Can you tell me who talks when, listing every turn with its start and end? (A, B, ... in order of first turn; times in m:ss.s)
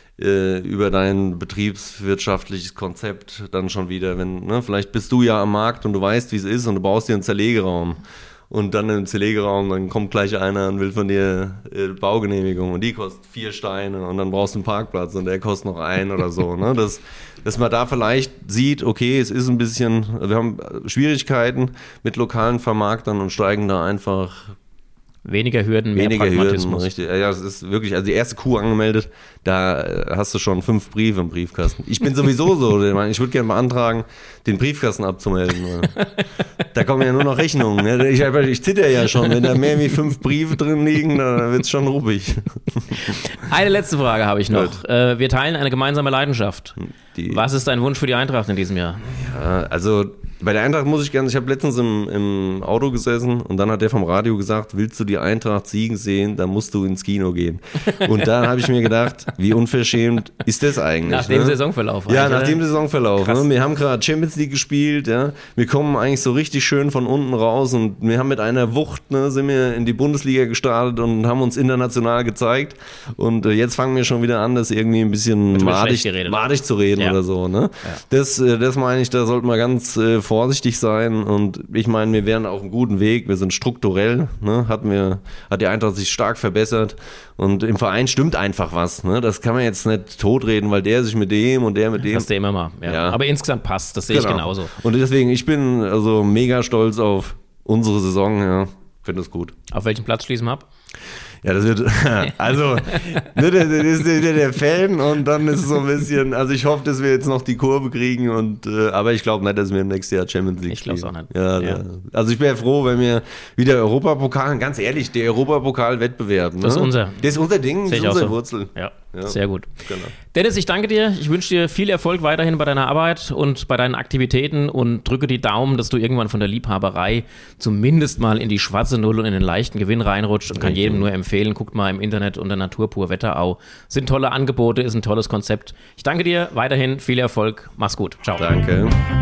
0:00.2-0:24.6 A
0:25.2-0:26.9 B
0:26.0-0:36.0 A
0:36.7-0:43.2 A
0:42.9-0:49.2 B
0:44.5-0:44.8 A
0:47.2-0:47.4 A
0:49.1-1:32.3 A
0:57.9-0:58.7 B
1:01.0-1:02.6 B
1:03.2-1:03.5 B
1:15.5-1:16.4 B
1:32.1-1:34.7 B
1:32.8-1:33.2 A
1:34.1-1:39.6 A
1:39.7-1:40.7 B
1:41.4-2:00.1 A
1:50.7-1:51.8 B
1:56.6-1:57.2 B
1:57.9-2:18.5 B
2:10.6-2:11.1 A
2:18.4-2:19.0 A